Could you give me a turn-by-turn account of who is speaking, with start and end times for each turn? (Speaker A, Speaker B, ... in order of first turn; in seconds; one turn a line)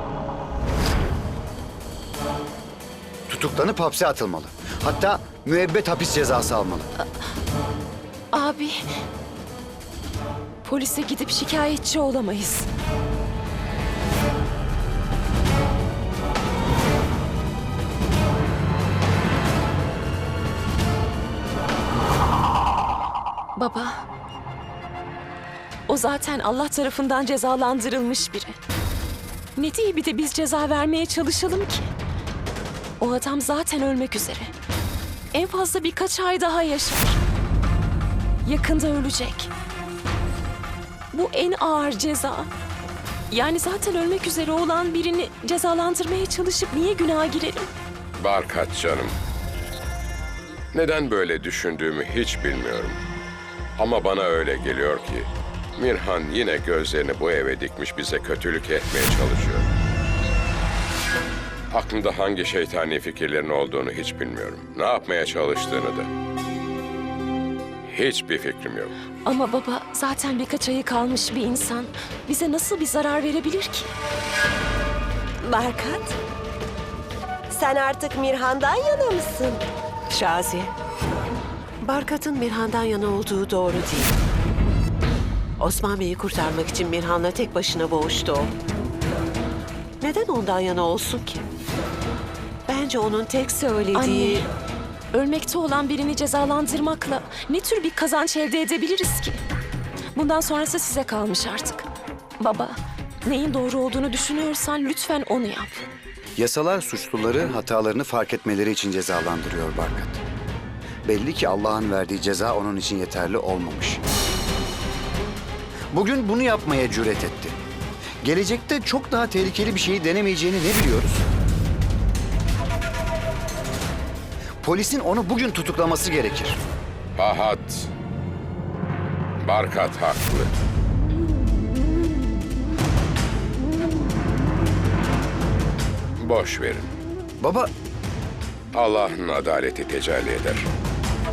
Speaker A: 3.3-6.9
Speaker B: 8.3-8.8
Speaker B: 10.6-12.7
Speaker B: 23.6-24.0
Speaker B: 25.9-28.5
Speaker B: 29.6-31.9
Speaker B: 33.0-34.5
Speaker B: 35.3-37.2
Speaker B: 38.4-39.5
Speaker B: 41.1-42.5
Speaker B: 43.3-47.7
Speaker C: 48.2-49.2
Speaker C: 50.7-53.0
Speaker C: 53.8-59.7
Speaker C: 61.7-66.1
Speaker C: 67.8-68.9
Speaker B: 69.2-73.9
Speaker D: 75.4-76.2
Speaker D: 77.5-79.6
Speaker E: 80.1-80.7
Speaker E: 81.8-84.2
Speaker E: 85.6-88.5
Speaker E: 90.0-91.5
Speaker E: 92.7-94.5
Speaker B: 93.9-94.5
Speaker B: 95.1-99.4
Speaker B: 100.1-101.9
Speaker B: 102.4-105.9
Speaker A: 106.3-110.2
Speaker A: 111.0-114.0
Speaker A: 115.9-117.5
Speaker A: 118.2-121.2
Speaker A: 124.6-126.6
Speaker C: 127.2-127.9
Speaker C: 129.4-130.5
Speaker C: 136.2-136.9
Speaker A: 137.4-137.7
Speaker C: 138.7-140.7